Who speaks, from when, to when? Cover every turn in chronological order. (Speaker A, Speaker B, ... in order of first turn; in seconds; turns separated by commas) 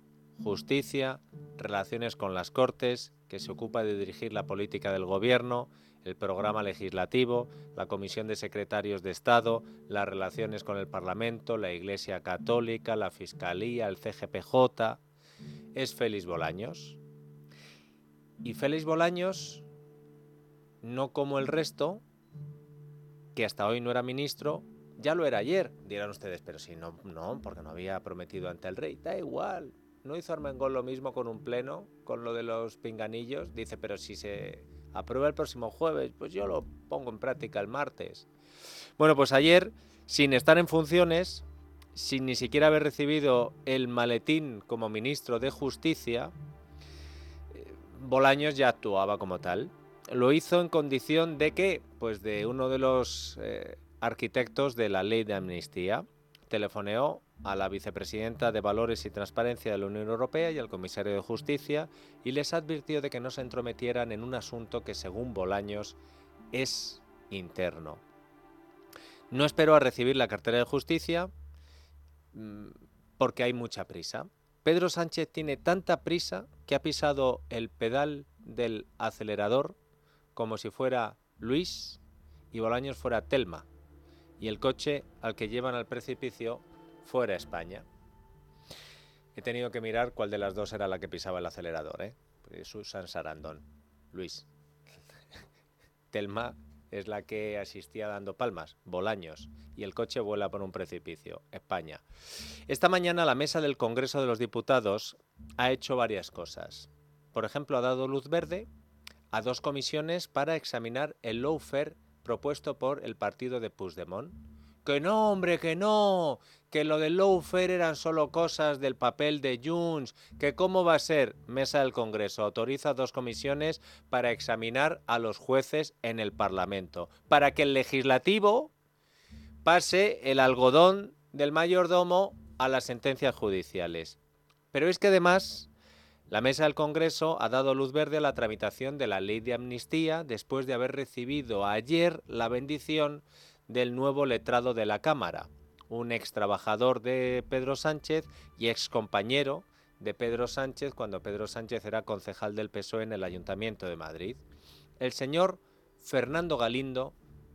Speaker A: 0.4-15.0, Speaker A: 15.7-17.0, Speaker A: 18.4-19.6, Speaker A: 20.8-22.0, Speaker A: 23.3-38.2, Speaker A: 39.0-46.3, Speaker A: 47.5-66.0, Speaker A: 66.5-68.0, Speaker A: 69.3-71.3, Speaker A: 72.3-79.8, Speaker A: 80.3-82.0, Speaker A: 82.5-83.7, Speaker A: 84.4-87.8, Speaker A: 89.3-95.0, Speaker A: 96.1-102.0, Speaker A: 102.7-108.7, Speaker A: 109.3-128.7, Speaker A: 129.6-134.2, Speaker A: 134.7-135.7, Speaker A: 136.3-154.4, Speaker A: 155.0-157.1